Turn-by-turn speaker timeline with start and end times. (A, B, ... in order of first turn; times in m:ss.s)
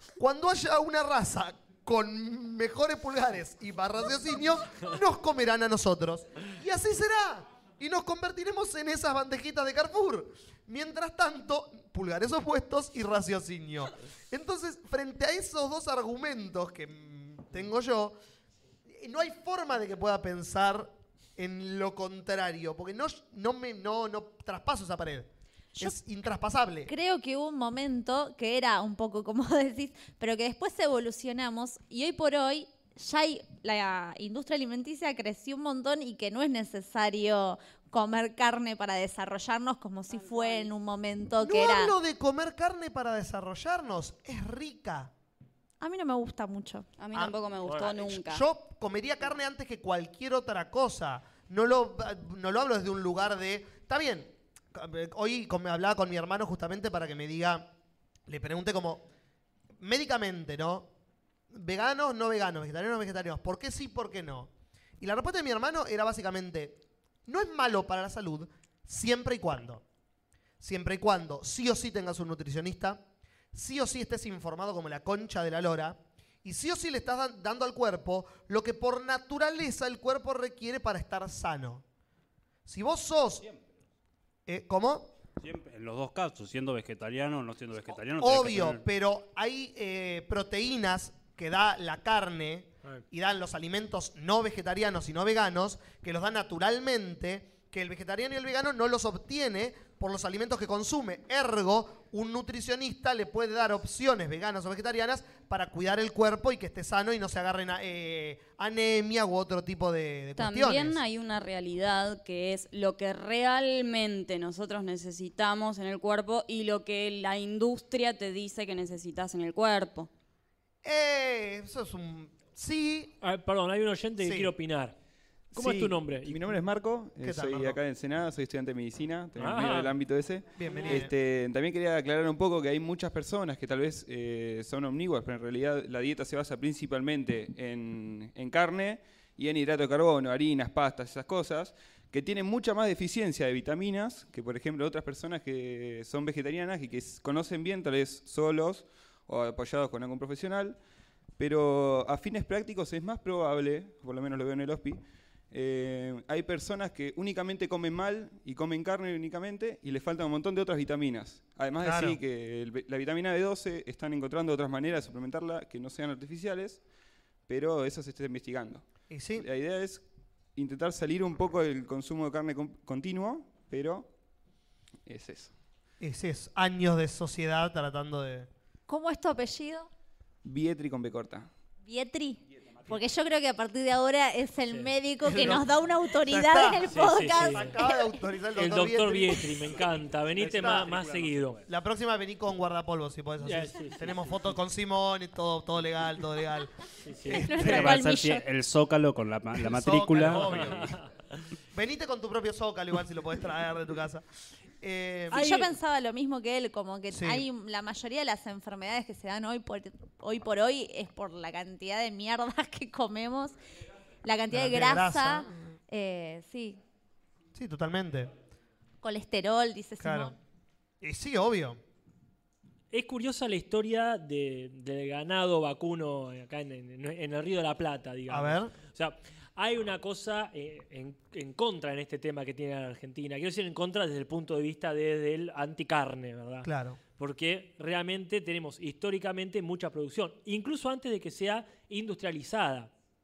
0:00.2-0:18.2 A
0:18.9-0:26.9 A
0:26.9-0:41.9 B
0:40.1-0:40.7 C
0:41.4-0:45.1 A
0:45.8-0:46.9 B
0:47.0-0:48.4 C
0:47.1-0:57.7 A
0:47.6-0:47.9 D
0:58.3-0:59.0 A
0:59.8-1:00.9 A
1:01.5-1:09.8 A
1:10.6-1:21.8 A
1:22.6-1:23.4 A
1:24.5-1:25.1 A
1:25.4-1:28.8 E
1:27.9-1:51.0 A
1:50.4-2:00.1 C
2:00.8-2:03.1 A
2:03.2-2:05.0 D
2:04.2-2:04.5 A
2:05.5-2:06.5 D
2:05.6-2:06.0 A
2:06.2-2:30.8 F
2:07.2-2:07.8 A
2:09.4-2:09.9 D
2:10.6-2:11.1 A
2:31.4-2:46.8 F
2:41.8-2:42.2 A
2:47.5-2:50.0 F
2:49.1-2:49.4 A
2:50.6-2:54.1 F
2:55.0-2:55.5 F
2:56.0-2:58.5 A
2:58.9-2:59.9 B
3:00.4-3:01.5 F
3:01.8-3:08.2 B
3:04.7-3:05.6 D
3:06.2-3:09.5 A
3:06.9-3:07.8 D
3:08.6-3:11.6 D
3:10.3-3:11.6 E
3:10.4-3:10.9 A
3:11.7-3:18.0 A
3:13.4-3:14.3 D
3:17.0-3:17.5 D
3:17.3-3:18.4 B
3:17.6-3:20.7 E
3:19.6-3:20.9 A
3:20.3-3:21.0 D
3:21.7-3:24.2 A
3:24.8-3:25.4 A
3:25.3-3:25.7 D
3:25.3-3:33.6 B
3:27.1-3:27.4 A
3:34.2-3:36.8 B
3:34.5-3:35.7 A
3:37.5-3:38.3 A
3:39.0-3:40.3 B
3:40.0-3:40.3 A
3:41.0-3:41.8 A
3:42.9-4:02.9 D
3:48.3-3:48.7 A
3:56.6-3:57.0 A